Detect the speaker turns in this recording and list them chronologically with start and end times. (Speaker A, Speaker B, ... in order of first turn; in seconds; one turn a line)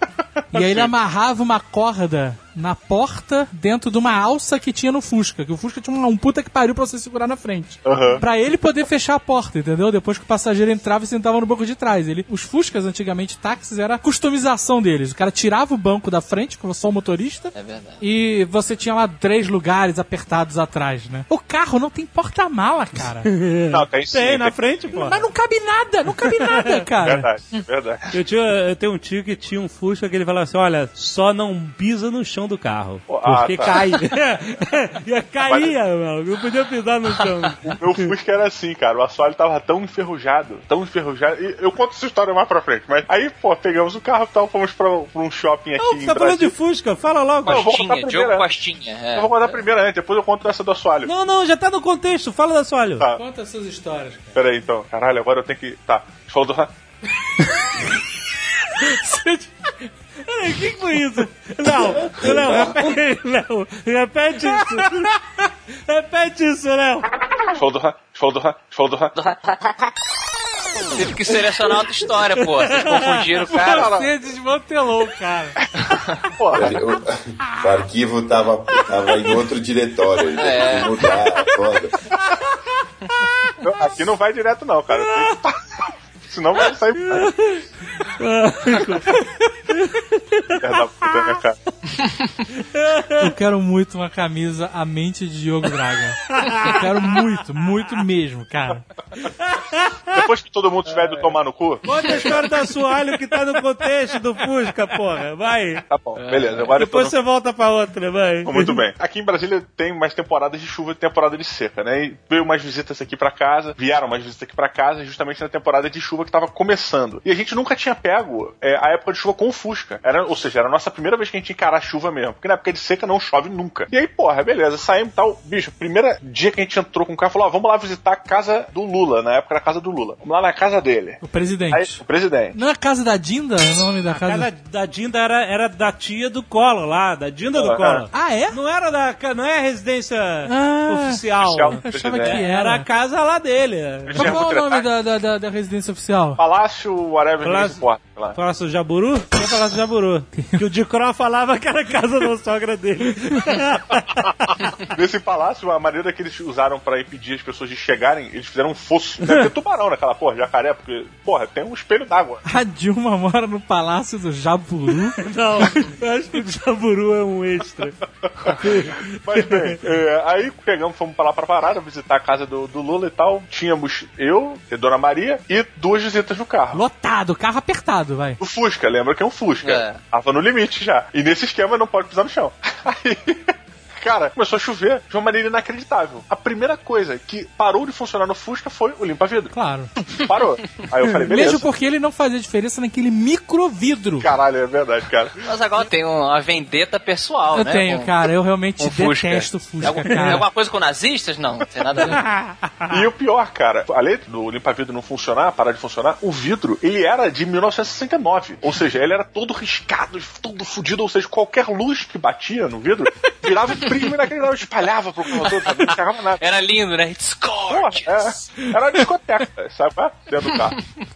Speaker A: 0.5-0.9
Speaker B: 0.5-23.3
Speaker A: 7.8-8.2
Speaker C: 17.5-18.0
Speaker D: 23.2-25.2
Speaker A: 23.7-25.1
Speaker B: 25.0-27.3
Speaker D: 26.3-26.9
Speaker A: 27.0-28.1
Speaker D: 28.1-38.1
Speaker A: 33.1-33.8
Speaker A: 35.5-35.8
Speaker A: 37.7-46.5
Speaker D: 45.8-47.9
Speaker A: 47.5-48.5
Speaker C: 47.5-49.6
Speaker A: 49.1-51.1
Speaker D: 51.0-53.1
Speaker B: 53.1-54.4
Speaker A: 54.3-56.7
Speaker B: 58.9-59.5
Speaker D: 60.3-65.1
Speaker E: 62.0-63.0
Speaker B: 64.5-65.1
Speaker D: 65.9-67.1
Speaker A: 67.5-69.1
Speaker C: 69.2-69.6
Speaker C: 70.9-73.9
Speaker D: 72.2-73.6
Speaker A: 73.5-74.1
Speaker B: 73.8-75.5
Speaker C: 75.8-76.1
Speaker A: 76.4-76.8
Speaker E: 76.5-82.0
Speaker C: 80.3-81.1
Speaker A: 83.6-87.3
Speaker D: 84.9-85.3
Speaker D: 87.0-87.6
Speaker D: 88.2-90.4
Speaker A: 90.6-91.6
Speaker D: 91.0-91.4
Speaker D: 92.5-93.3
Speaker B: 93.2-98.8
Speaker D: 96.3-96.9
Speaker D: 99.2-100.2
Speaker A: 100.1-102.6
Speaker D: 101.8-105.8
Speaker A: 105.9-107.2
Speaker C: 106.2-106.7
Speaker D: 106.7-108.8
Speaker A: 108.5-131.2
Speaker B: 131.2-132.0
Speaker A: 131.7-132.6
Speaker B: 132.5-134.5
Speaker D: 134.1-144.4
Speaker A: 137.5-138.1
Speaker B: 138.1-138.6
Speaker B: 140.4-142.9
Speaker A: 141.4-142.4
Speaker A: 144.1-144.9
Speaker B: 144.2-146.4
Speaker A: 146.4-148.4
Speaker D: 147.4-147.8
Speaker D: 148.3-154.3
Speaker A: 154.9-162.4
Speaker D: 159.2-159.5
Speaker B: 162.4-165.2
Speaker D: 165.2-169.8
Speaker A: 168.4-176.8
Speaker B: 176.7-178.4
Speaker A: 178.4-189.5
Speaker C: 179.6-180.0
Speaker B: 189.5-189.9
Speaker A: 190.2-191.7
Speaker B: 191.3-194.3
Speaker A: 194.2-195.3
Speaker C: 195.4-198.1
Speaker B: 197.5-200.4
Speaker C: 198.8-202.2
Speaker D: 200.1-200.4
Speaker D: 202.0-202.5
Speaker A: 202.9-216.4
Speaker C: 213.8-214.1
Speaker C: 215.3-218.7
Speaker A: 217.7-220.7
Speaker C: 220.5-220.8